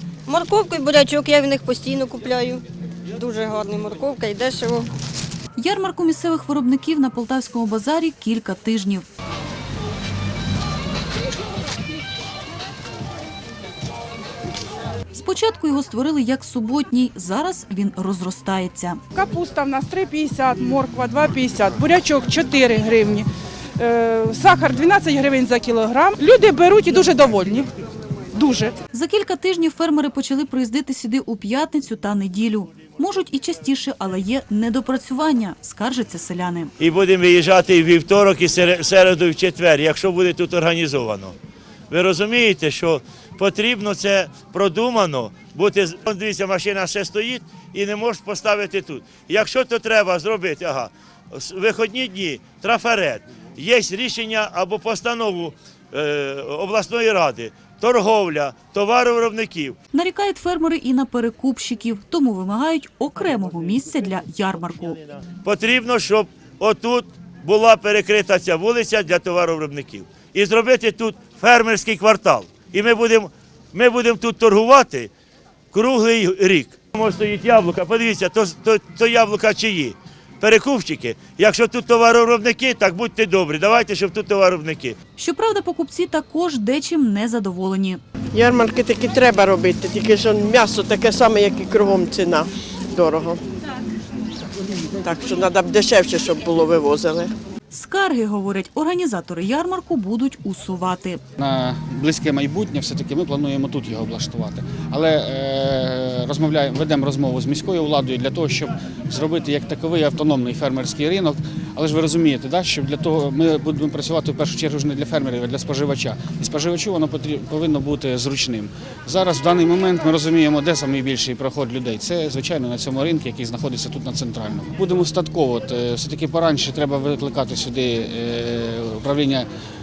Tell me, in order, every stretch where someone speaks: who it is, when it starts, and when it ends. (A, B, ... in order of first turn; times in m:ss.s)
0:00.3-0:02.6 A
0:03.2-0:04.9 A
0:05.6-0:09.1 B
0:15.1-0:19.0 B
0:19.1-0:27.7 C
0:28.3-0:28.8 C
0:28.9-0:36.7 B
0:36.8-0:41.4 D
0:41.9-0:59.8 D
0:59.9-1:05.0 B
1:05.4-1:15.1 D
1:15.7-1:25.0 D
1:25.2-1:28.0 B
1:28.3-1:33.4 E
1:35.0-1:37.3 E
1:37.7-1:41.2 B
1:41.4-2:09.5 F